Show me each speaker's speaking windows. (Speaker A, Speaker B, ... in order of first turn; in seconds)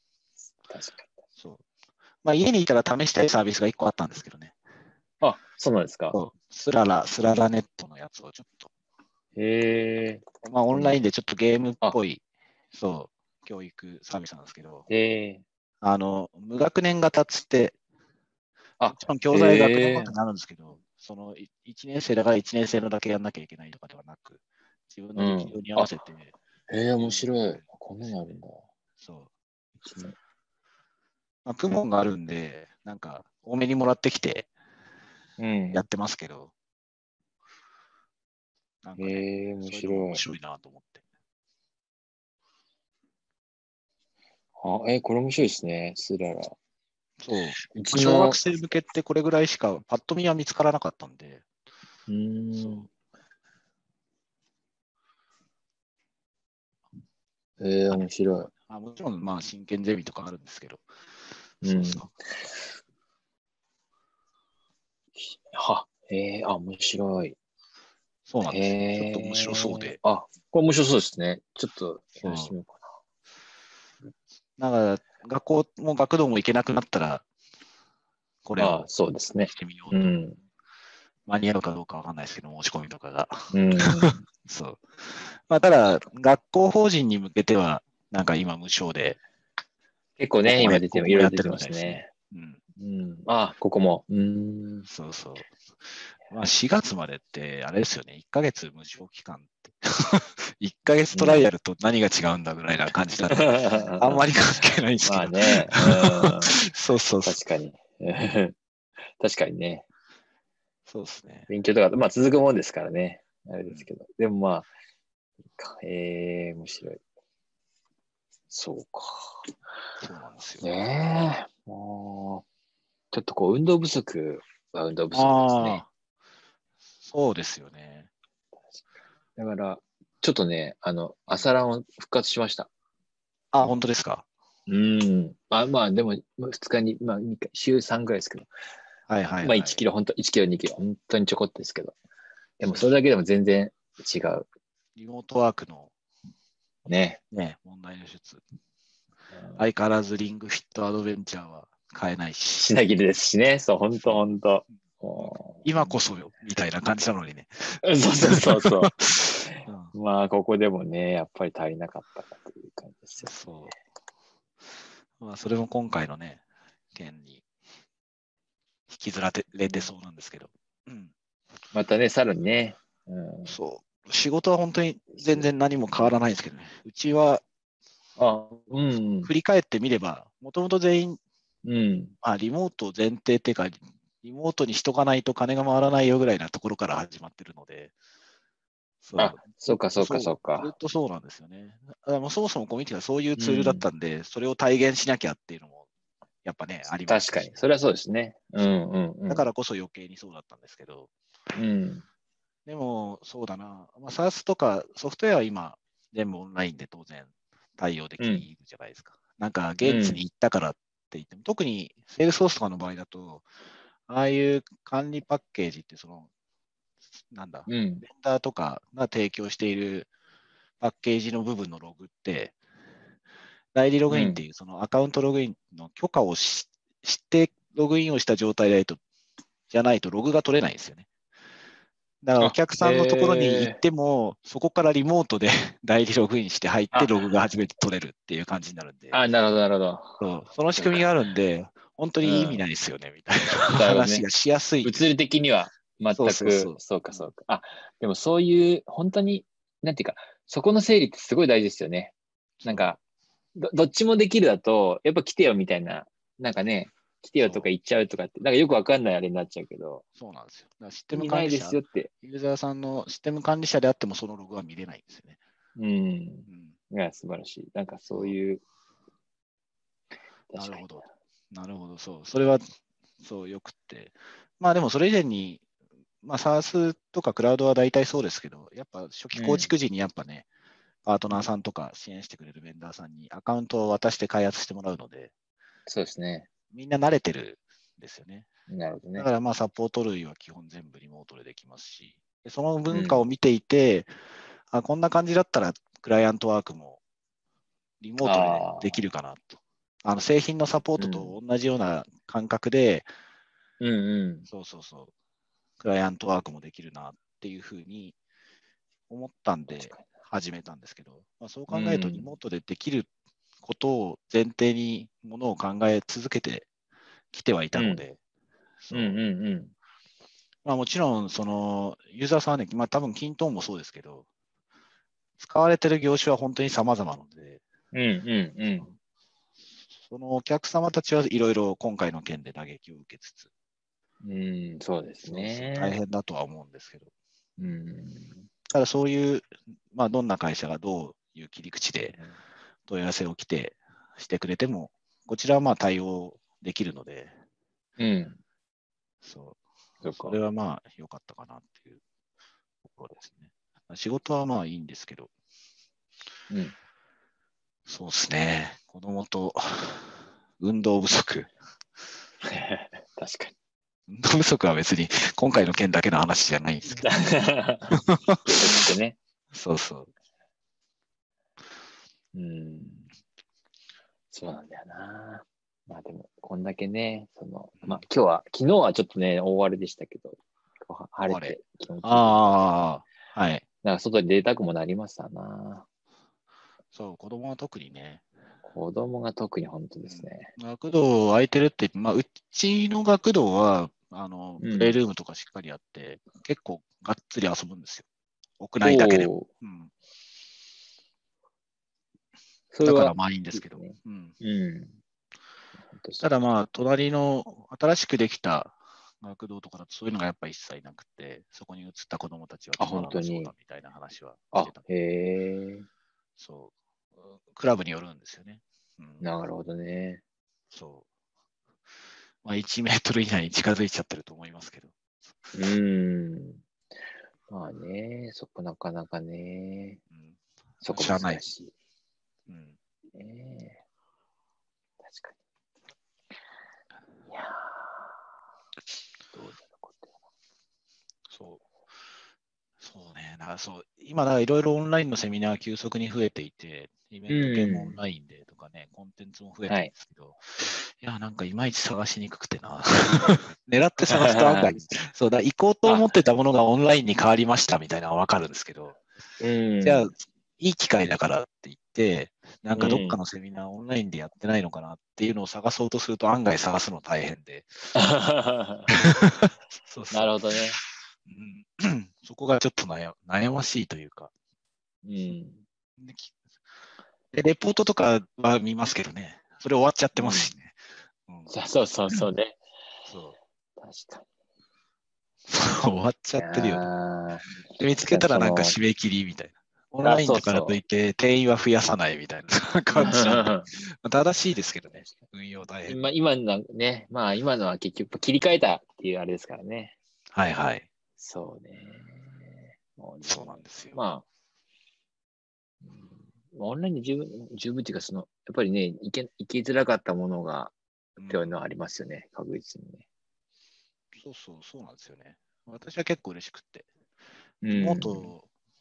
Speaker A: 0.6-1.1, 5.2-6.2, 9.3-11.0, 14.9-15.4, 18.8-20.1, 25.1-25.9, 26.7-28.6, 29.8-30.1, 35.4-35.8, 39.0-40.2, 44.6-46.5, 47.7-48.4, 52.1-52.9, 57.6-58.5, 61.6-62.6, 65.2-67.3, 68.5-72.8, 78.6-80.4, 83.5-84.2, 90.2-92.1, 92.8-94.9, 101.1-101.5, 103.3-104.2, 105.0-106.6, 107.2-108.5, 109.2-109.8, 111.5-114.7, 115.6-117.0, 118.5-119.5, 120.6-122.4, 123.1-125.8, 129.3-132.7, 134.7-138.5, 139.4-141.9, 142.6-144.5, 146.8-147.2, 149.3-149.6, 152.6-156.0, 157.8-163.3, 169.7-169.9, 171.7-173.6, 175.2-176.1, 178.2-179.3, 181.6-182.1, 189.2-190.7, 193.4-193.8, 197.1-199.5, 201.5-202.0, 208.2-208.5, 209.8-210.2, 217.7-218.0, 224.1-224.4, 232.4-233.8, 236.9-237.2, 239.1-240.2, 240.8-241.1, 242.2-242.6, 243.7-244.2, 244.8-252.1, 252.6-253.0, 253.6-260.0, 261.1-262.1, 265.8-268.6, 270.5-271.0, 279.3-279.7, 285.9-286.5, 288.7-289.3, 292.9-293.2, 298.2-299.0, 301.0-301.3, 303.8-304.5, 309.7-310.1, 311.7-312.3, 317.7-318.0, 318.9-319.7, 327.9-328.9, 334.2-336.0, 337.6-338.4, 348.0-348.4, 350.0-350.4, 356.5-356.7, 362.4-363.5, 367.0-369.2, 372.3-373.1, 374.3-382.7, 383.8-385.9, 388.6-390.5, 394.6-395.0, 398.8-399.5, 402.7-405.0, 405.9-406.3, 412.8-413.5, 414.5-415.9, 419.2-420.2, 425.5-426.6, 427.5-430.0, 430.8-431.7, 433.1-433.8, 435.0-435.4, 437.3-438.1, 439.3-440.1, 447.3-448.0, 454.1-454.8, 459.4-460.1, 462.7-463.2, 467.9-468.9, 470.1-470.8, 475.0-475.6, 480.1-480.5, 481.5-482.6, 483.8-484.2, 486.4-487.4, 488.1-488.8, 490.0-490.8, 492.9-493.7, 495.9-499.9, 501.2-504.2, 505.8-510.7, 511.2-513.0, 517.6-518.3
Speaker B: 1.4-1.6, 2.2-4.5, 6.1-8.7, 10.4-14.8, 15.8-17.8, 18.9-26.3, 27.0-28.4, 29.0-29.3, 31.4-34.5, 35.7-36.5, 38.8-41.0, 47.2-51.4, 52.5-52.8, 57.9-60.9, 61.6-62.1, 68.3-70.0, 72.2-72.5, 74.6-77.2, 78.4-78.9, 79.4-80.2, 81.3-89.2, 90.4-92.6, 94.9-107.4, 110.9-111.5, 120.0-120.7, 125.1-125.9, 127.0-128.1, 133.5-134.2, 139.1-139.8, 142.6-142.9, 144.9-145.9, 147.3-148.4, 149.6-152.7, 155.2-159.9, 163.2-163.7, 165.2-166.4, 166.9-167.4, 168.9-171.1, 173.5-177.4, 179.2-181.2, 182.2-187.9, 189.0-195.8, 196.4-197.6, 199.3-201.1, 202.7-213.4, 214.1-216.3, 217.3-220.1, 220.8-222.5, 223.7-229.0, 229.7-231.1, 232.2-239.2, 240.2-245.1, 246.1-247.2, 252.6-252.9, 257.4-257.7, 260.2-265.4, 266.5-266.8, 270.6-272.7, 273.2-275.6, 276.2-280.4, 281.0-285.3, 286.7-288.5, 289.1-294.1, 294.7-297.0, 298.0-303.1, 304.5-305.1, 305.8-308.1, 309.1-313.1, 313.6-316.7, 317.3-318.2, 318.8-319.2, 320.6-324.2, 325.4-327.6, 330.1-333.5, 335.2-337.1, 338.7-342.2, 342.9-347.3, 349.2-352.0, 352.8-355.3, 357.9-361.5, 364.1-367.1, 367.9-368.6, 369.5-370.1, 381.2-383.6, 386.9-388.2, 390.0-398.1, 398.6-399.9, 402.8-404.3, 406.2-414.8, 416.4-416.7, 417.4-419.2, 420.7-421.0, 422.4-424.9, 430.1-431.4, 432.5-432.8, 441.3-441.6, 442.8-459.0, 459.8-467.7, 468.9-470.5, 471.2-474.3, 476.0-476.3, 477.3-481.5, 483.1-483.4, 485.5-486.9, 487.7-496.1, 500.3-500.9, 503.2-504.0, 511.2-511.5, 514.1-516.9, 517.7-518.5